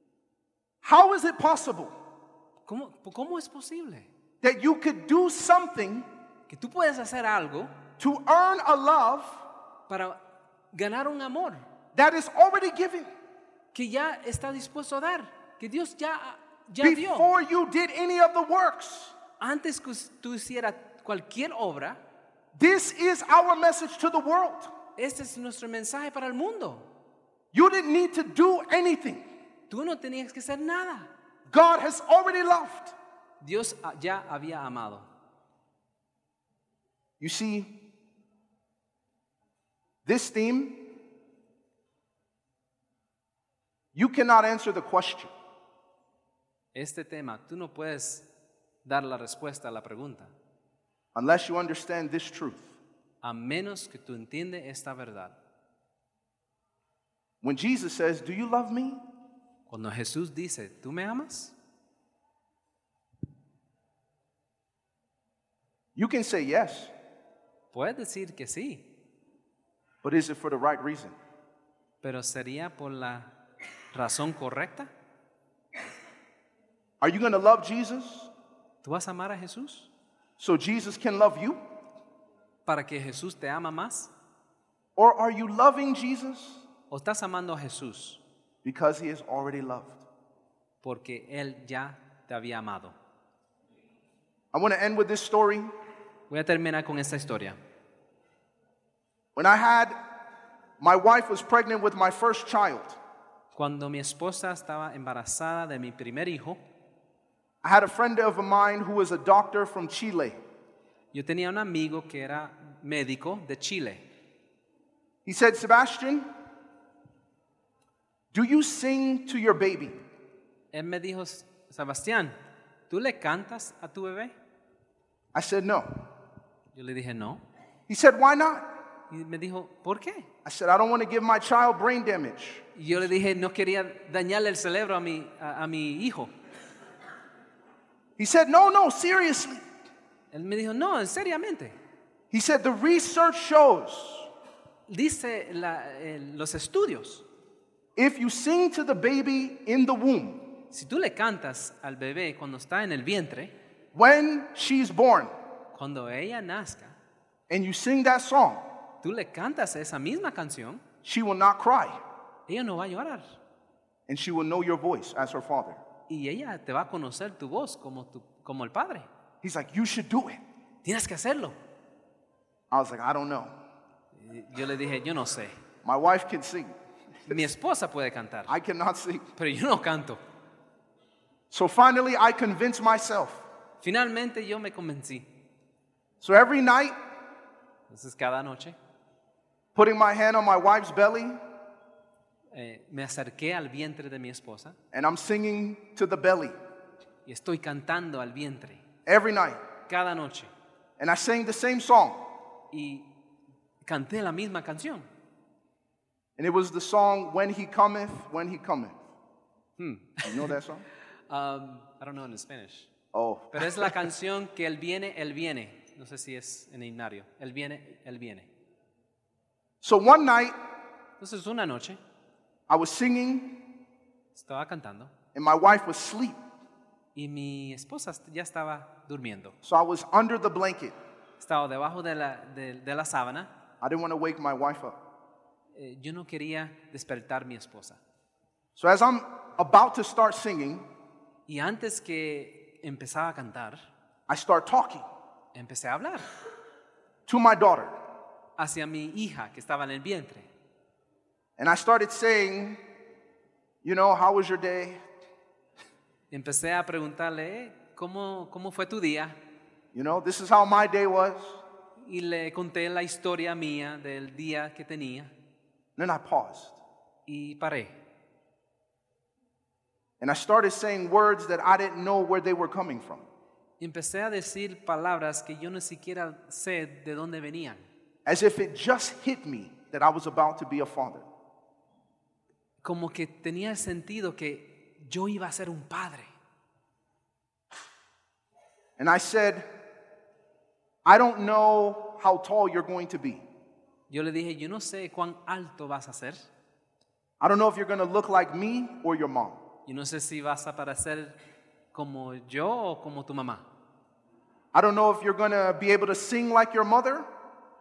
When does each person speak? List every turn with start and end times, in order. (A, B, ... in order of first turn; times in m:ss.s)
0:00.8-0:01.9 A
0:02.6-0:04.1 B
0:04.4-0:06.1 A
0:06.5-0:07.7 B
0:08.0-0:09.4 A
0:09.9-0:10.2 B
0:10.7-0:11.6 B
0:11.9-0:13.1 A
0:13.7-0:17.3 B
0:16.8-0:19.2 A
0:19.4-0:22.0 B
0:22.5-0:24.7 A
0:25.0-0:26.9 B
0:27.5-0:29.2 A
0:29.7-0:31.1 B
0:31.5-0:32.9 A
0:33.4-0:35.1 B
0:37.2-0:37.8 A
0:40.0-0:40.9 A
0:43.9-0:45.3 A
0:46.7-0:48.3 B
0:48.8-0:50.3 B
0:51.1-0:52.7 A
0:53.2-0:55.4 B
0:57.4-0:59.0 A
0:59.7-1:01.6 B
1:06.0-1:06.9 A
1:07.7-1:08.9 B
1:10.0-1:11.2 A
1:12.0-1:13.3 B
1:13.9-1:14.9 B
1:17.0-1:18.3 A
1:18.8-1:19.9 B
1:20.4-1:21.6 A
1:22.6-1:24.1 B
1:25.0-1:26.6 A
1:26.9-1:28.2 B
1:28.6-1:30.0 A
1:30.8-1:33.0 B
1:34.5-1:35.7 A
1:36.3-1:37.6 B
1:39.3-1:40.0 A
1:40.8-1:43.0 A
1:43.5-1:46.6 B
1:47.6-1:50.4 A
1:51.1-1:54.0 B
1:55.2-1:56.3 A
1:58.3-2:00.0 A
2:00.7-2:02.4 B
2:02.9-2:04.3 B
2:05.3-2:06.0 A
2:06.7-2:07.4 B
2:07.9-2:08.7 A
2:09.1-2:10.3 B
2:10.4-2:12.6 A
2:12.8-2:16.3 B
2:18.2-2:19.6 A
2:20.3-2:21.8 B
2:22.3-2:24.3 A
2:24.9-2:27.2 B
2:28.0-2:30.4 A
2:30.7-2:33.5 B
2:33.9-2:35.3 A
2:35.7-2:37.0 B
2:37.5-2:38.6 A
2:39.0-2:40.8 B
2:41.0-2:42.0 A
2:42.5-2:43.4 B
2:44.1-2:45.8 A
2:46.1-2:49.1 B
2:49.4-2:50.4 A
2:50.8-2:51.6 B
2:52.7-2:53.5 A
2:54.1-2:55.5 B
2:55.8-2:56.8 A
2:57.3-2:58.5 B
2:58.5-2:59.3 A
2:59.4-3:00.2 B
3:01.5-3:03.4 A
3:03.8-3:05.3 B
3:06.2-3:07.0 A
3:07.9-3:08.8 B
3:09.7-3:11.4 A
3:12.5-3:14.8 B
3:14.9-3:16.6 A
3:17.2-3:18.8 B
3:19.0-3:19.6 A
3:19.9-3:20.5 B
3:21.0-3:22.2 A
3:22.7-3:23.1 B
3:23.8-3:25.1 B
3:26.4-3:29.0 A
3:29.8-3:30.5 B
3:30.2-3:30.8 A
3:31.3-3:32.9 B
3:33.1-3:34.0 A
3:33.5-3:38.5 B
3:39.8-3:40.5 A
3:41.2-3:42.0 B
3:42.7-3:43.6 A
3:44.3-3:45.1 B
3:45.3-3:46.4 A
3:47.1-3:49.6 B
3:49.6-3:50.9 A
3:51.4-3:53.5 B
3:53.8-3:55.0 A
3:55.7-3:58.0 B
3:58.8-4:00.9 A
4:01.5-4:03.9 B
4:04.3-4:05.0 A
4:05.5-4:06.3 B
4:07.3-4:08.0 A
4:08.6-4:10.5 B
4:11.6-4:12.8 A
4:13.8-4:15.0 A
4:16.3-4:19.4 B
4:19.9-4:21.6 A
4:22.0-4:25.3 B
4:26.0-4:26.8 A
4:27.3-4:28.0 B
4:30.2-4:33.3 A
4:33.8-4:37.8 B
4:38.2-4:41.2 A
4:42.8-4:46.3 B
4:49.0-4:49.7 A
4:51.0-4:53.4 A
4:54.1-4:56.5 B
4:57.4-4:59.6 A
4:59.9-5:01.4 B
5:01.9-5:03.7 B
5:04.7-5:07.3 A